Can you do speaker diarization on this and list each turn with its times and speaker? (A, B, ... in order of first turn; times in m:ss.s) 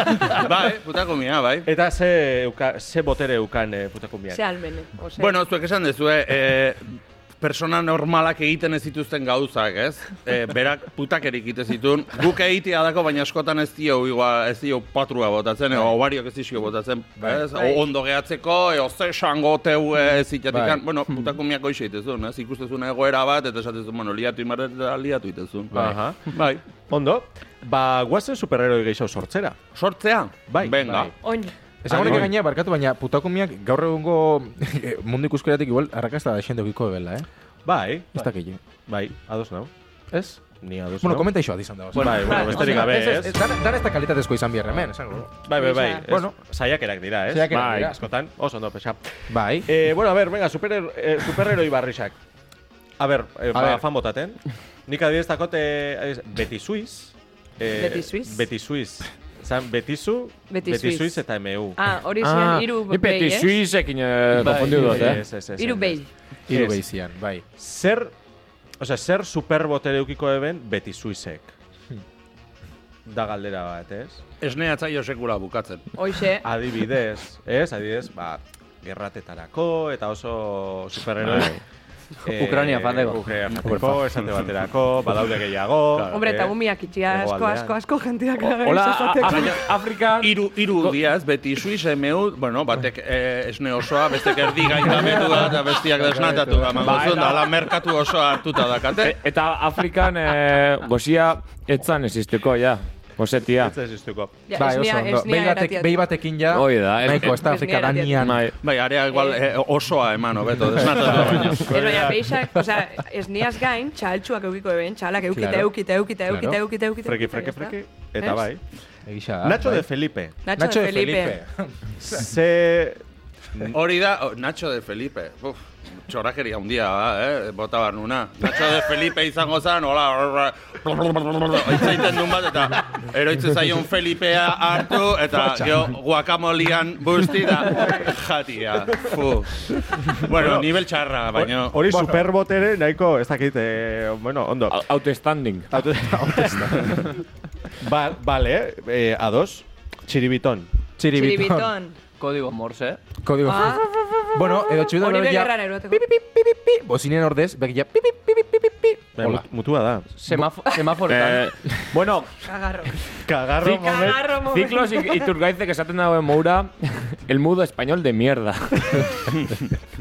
0:00.3-0:01.7 A
0:01.6-0:04.4 B
0:04.3-0:05.4 C
0:05.2-0:26.6 A
0:17.2-0:17.5 D
0:20.5-0:20.8 D
0:25.7-0:26.2 B
0:26.9-0:29.6 B
0:29.7-0:31.1 A
0:30.5-0:31.1 B
0:30.8-0:31.1 D
0:31.2-0:31.5 C
0:31.8-0:37.3 D
0:31.9-0:32.3 A
0:31.9-0:32.3 B
0:37.6-0:38.2 B
0:38.1-0:38.6 D
0:38.9-0:39.7 B
0:40.1-0:40.5 D
0:40.5-0:41.3 B
0:41.0-0:45.5 D
0:42.0-0:43.4 B
0:42.3-0:42.8 C
0:45.4-0:52.2 B
0:45.5-0:46.0 C
0:46.0-0:46.3 D
0:47.3-0:48.0 D
0:47.5-0:48.0 E
0:49.3-0:49.7 D
0:53.0-1:01.8 B
0:53.5-0:53.8 D
0:57.7-0:58.4 C
1:00.5-1:03.6 C
1:02.2-1:05.2 E
1:04.4-1:05.1 F
1:04.5-1:06.8 B
1:05.6-1:06.1 C
1:06.5-1:07.4 D
1:07.6-1:08.1 B
1:08.8-1:11.5 B
1:13.0-1:14.2 B
1:14.4-1:15.9 A
1:16.0-1:16.5 C
1:16.4-1:21.6 B
1:21.2-1:21.6 E
1:22.2-1:27.8 B
1:22.3-1:23.3 F
1:23.6-1:24.0 D
1:26.1-1:29.6 C
1:28.4-1:31.0 E
1:29.3-1:29.6 A
1:30.2-1:39.2 A
1:34.8-1:37.3 D
1:36.8-1:37.6 E
1:39.0-1:43.8 E
1:43.6-1:44.3 B
1:44.5-1:46.0 C
1:44.5-1:48.5 D
1:46.5-1:47.4 E
1:47.2-1:48.2 C
1:48.2-1:48.6 E
1:48.6-1:51.7 A
1:49.1-1:49.4 C
1:51.5-1:52.2 B
1:51.6-1:58.4 C
1:55.3-1:55.7 D
1:56.2-1:56.6 D
1:57.0-1:58.6 B
1:59.0-1:59.9 D
1:59.4-2:00.4 B
2:00.4-2:01.4 C
2:00.5-2:01.9 D
2:02.0-2:03.0 B
2:03.7-2:21.8 A
2:15.4-2:15.7 D
2:20.3-2:20.7 B
2:21.3-2:24.8 B
2:21.9-2:22.2 D
2:24.7-2:25.7 E
2:25.7-2:27.1 B
2:26.2-2:27.0 D
2:27.8-2:30.7 B
2:31.0-2:31.7 D
2:31.1-2:32.0 C
2:32.2-2:33.0 F
2:33.2-2:39.4 D
2:33.4-2:33.9 C
2:34.7-2:36.0 C
2:39.2-2:40.1 B
2:40.1-2:41.5 F
2:41.1-2:42.3 E
2:42.4-2:42.9 C
2:43.2-2:44.3 B
2:43.6-2:49.3 E
2:43.8-2:45.2 C